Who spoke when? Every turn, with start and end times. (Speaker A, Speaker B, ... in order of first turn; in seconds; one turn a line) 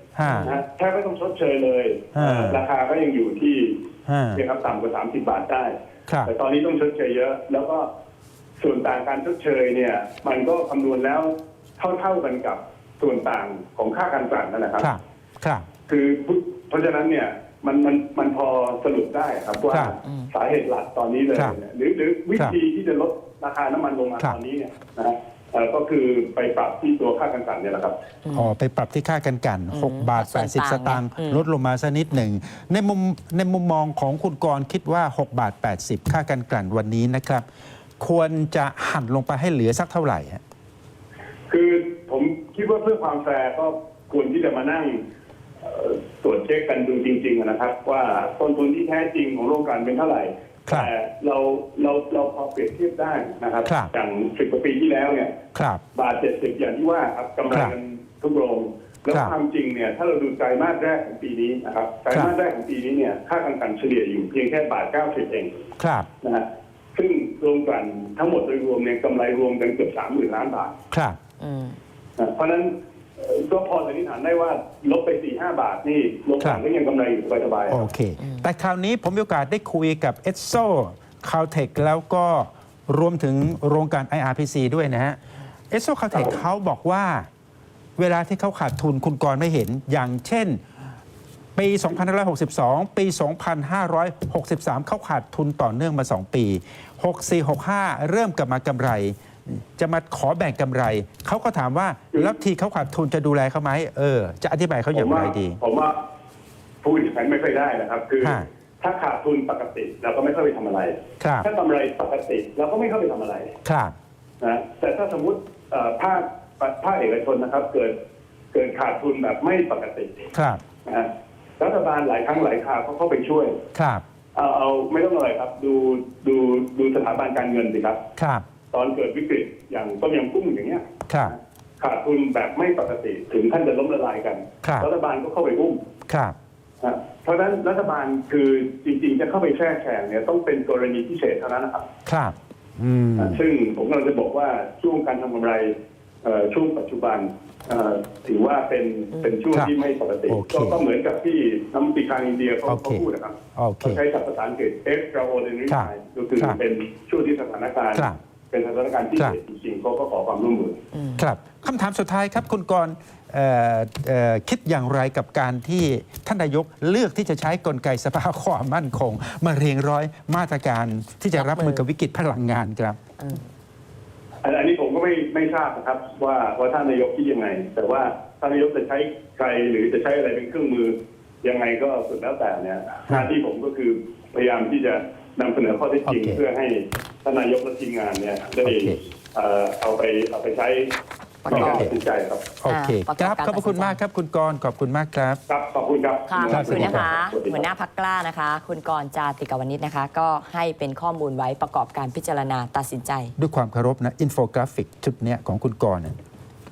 Speaker A: 0.1-0.5
Speaker B: 0.2-0.5
Speaker C: 0.4-3.8
Speaker A: 2.1-2.6
Speaker A: 4.1-4.4
Speaker C: 4.3-7.8
Speaker C: 8.6-14.9
Speaker A: 14.8-15.7
Speaker C: 15.9-27.9
Speaker A: 19.7-19.9
Speaker B: 28.2-28.5
Speaker A: 28.3-37.4
Speaker B: 29.7-31.4
Speaker A: 38.0-40.4
Speaker C: 41.5-45.0
Speaker C: 45.6-55.3
Speaker A: 53.6-53.9
Speaker A: 55.5-55.8
Speaker C: 55.9-65.5
Speaker A: 65.8-66.1
Speaker C: 66.2-70.7
Speaker A: 70.9-71.2
Speaker B: 71.4-71.8
Speaker C: 72.2-77.8
Speaker A: 77.7-85.2
Speaker A: 85.7-87.3
Speaker C: 86.1-86.4
Speaker A: 88.0-90.6
Speaker A: 91.5-105.6
Speaker C: 104.9-106.0
Speaker C: 106.8-113.5
Speaker A: 108.2-108.5
Speaker A: 111.2-111.5
Speaker A: 113.6-113.9
Speaker C: 114.4-117.9
Speaker C: 118.5-120.3
Speaker A: 120.3-120.6
Speaker C: 120.8-123.5
Speaker A: 123.7-124.0
Speaker C: 124.3-128.0
Speaker A: 128.2-128.4
Speaker C: 128.7-135.8
Speaker A: 131.1-131.3
Speaker A: 134.6-134.9
Speaker A: 136.1-136.3
Speaker C: 136.8-141.8
Speaker A: 142.1-143.4
Speaker C: 143.2-145.7
Speaker C: 146.2-160.8
Speaker A: 150.3-150.8
Speaker A: 152.7-154.0
Speaker A: 155.7-156.6
Speaker A: 157.9-158.2
Speaker B: 160.9-161.2
Speaker A: 161.2-173.0
Speaker B: 171.3-171.8
Speaker C: 174.4-190.9
Speaker A: 186.1-186.4
Speaker A: 188.6-189.0
Speaker B: 191.4-191.9
Speaker C: 191.5-192.6
Speaker A: 191.5-191.9
Speaker A: 192.6-195.4
Speaker B: 192.7-194.0
Speaker C: 195.5-197.7
Speaker B: 196.3-203.3
Speaker A: 196.5-197.1
Speaker A: 203.4-206.2